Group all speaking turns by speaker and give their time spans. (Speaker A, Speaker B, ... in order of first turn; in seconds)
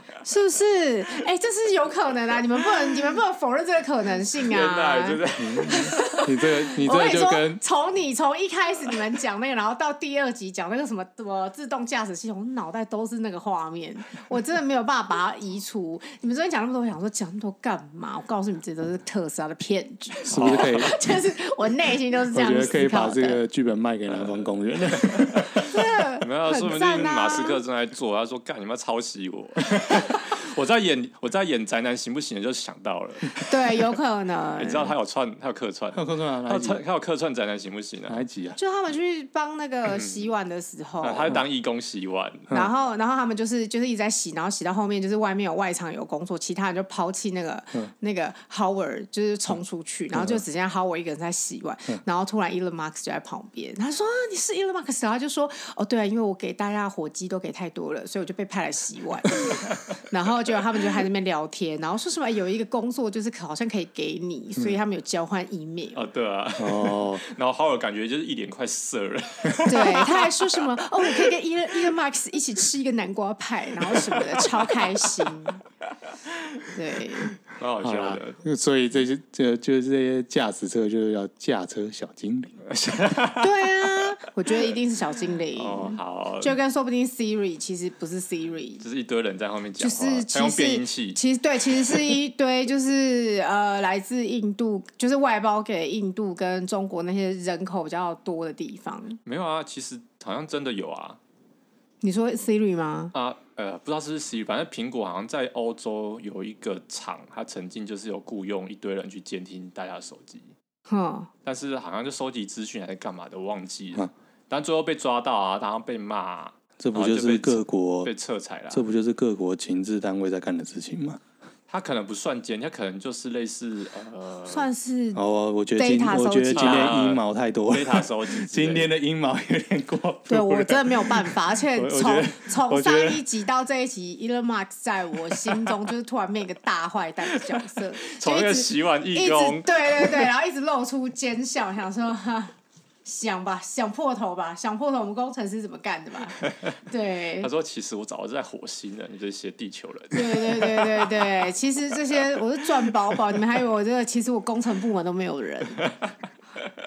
Speaker A: 0.2-23.4, 25.7-27.6, 33.4-34.9, 38.6-41.4, 42.5-66.0, 69.7-75.6, 76.7-77.3, 83.4-88.8, 89.8-99.2, 102.0-103.1, 110.9-111.3, 124.5-125.2, 125.7-126.9, 130.3-147.5, 150.1-155.8
Speaker B: 4.4-6.2, 20.3-20.9, 24.1-33.7, 34.6-38.2, 39.9-40.2, 41.0-42.5, 65.9-71.3, 74.1-74.6, 77.4-78.4, 82.7-84.7, 85.5-86.5, 88.8-91.2, 91.7-92.1, 99.2-101.2, 103.1-110.5, 111.4-118.8, 121.7-124.7, 126.5-128.9, 137.3-140.2, 146.4-146.8, 147.4-151.3, 152.1-152.9, 155.8-156.7
Speaker C: 5.4-7.6, 20.2-21.0, 22.3-25.6, 35.9-36.8, 38.1-38.6, 50.1-50.4, 66.6-67.2, 77.8-82.6, 116.8-118.1, 118.7-121.2, 125.1-133.2